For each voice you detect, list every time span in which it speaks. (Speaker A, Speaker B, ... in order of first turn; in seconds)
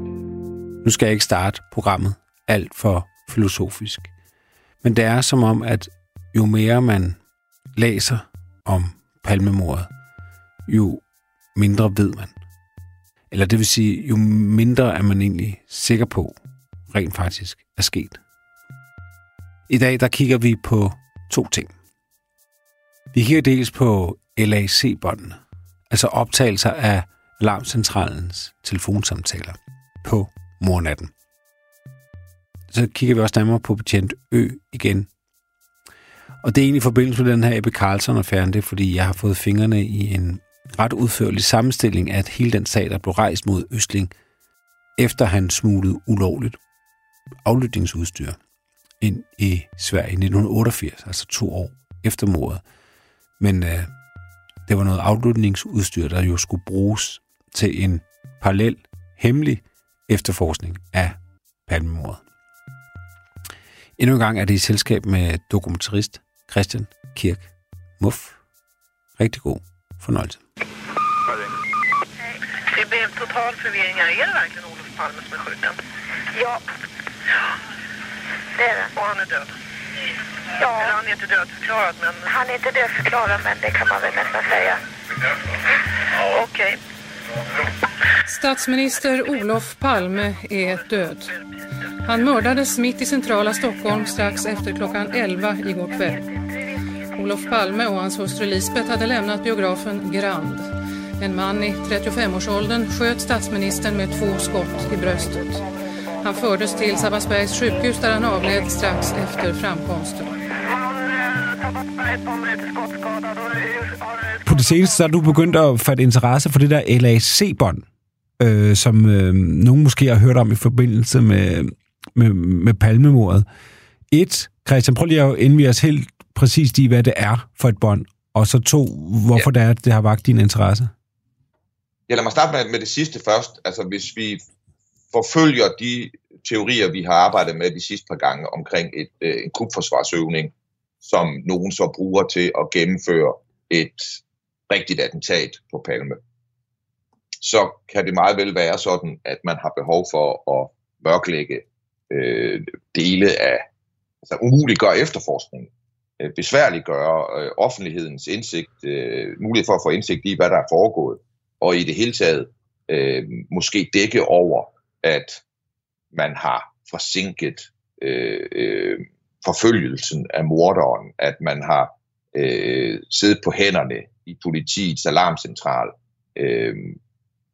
Speaker A: 0.8-4.1, 4.8-7.2, 7.8-9.9, 10.7-11.0, 11.6-12.3, 13.3-16.4, 16.9-18.2, 19.7-21.7, 23.1-31.1, 32.7-35.1, 36.4-44.1, 45.0-46.6, 47.4-48.4, 49.0-52.6, 53.4-53.9, 54.7-62.2, 64.0-68.4, 69.2-70.4, 114.5-117.9, 118.4-123.5, 124.1-130.9
Speaker B: 72.7-75.8, 79.0-79.5, 80.7-82.3, 111.6-114.1
Speaker C: 76.3-76.6, 78.6-78.9, 80.6-81.0, 82.3-84.8, 86.3-86.7
Speaker D: 88.3-91.4, 92.0-96.2, 97.2-105.7, 106.2-110.4
Speaker E: 132.1-134.4, 135.1-146.2, 147.4-153.7, 154.2-165.4, 166.1-177.0